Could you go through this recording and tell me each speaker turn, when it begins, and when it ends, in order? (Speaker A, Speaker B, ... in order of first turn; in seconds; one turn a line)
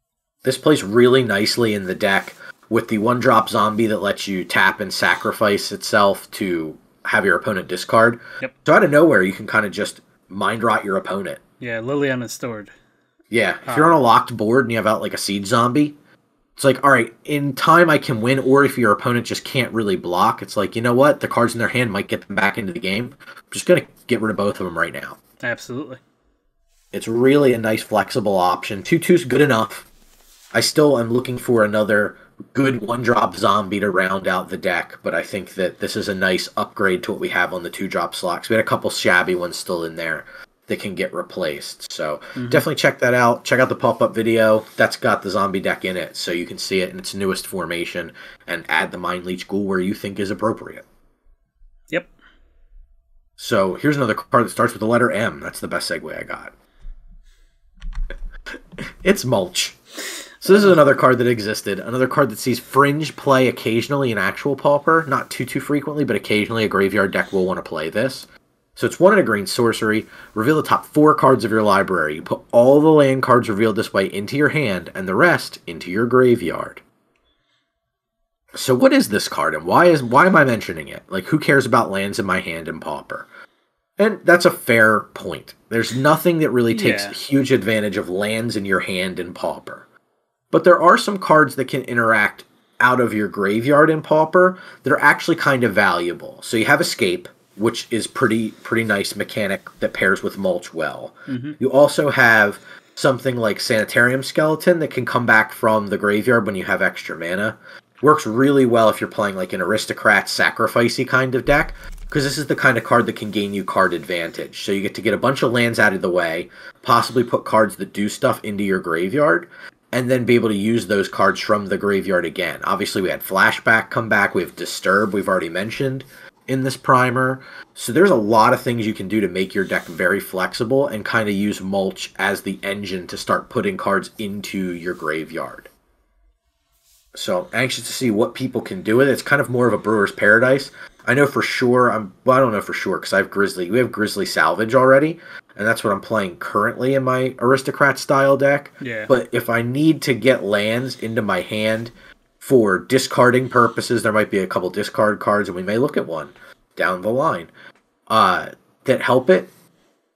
Speaker A: 0.4-11.4
Speaker B: 11.6-12.7
Speaker A: 13.3-15.9
Speaker B: 13.7-14.0
Speaker A: 16.6-25.2
Speaker B: 25.4-26.0
Speaker A: 26.9-29.9
Speaker A: 30.5-50.8
Speaker B: 42.4-42.6
Speaker A: 53.4-56.5
Speaker A: 59.0-59.8
Speaker B: 60.4-60.8
Speaker A: 60.4-76.8
Speaker A: 78.5-83.3
Speaker A: 84.0-89.8
Speaker B: 86.7-87.2
Speaker A: 90.5-135.7
Speaker B: 101.3-101.5
Speaker A: 137.1-157.5
Speaker B: 148.8-149.1
Speaker A: 158.1-159.5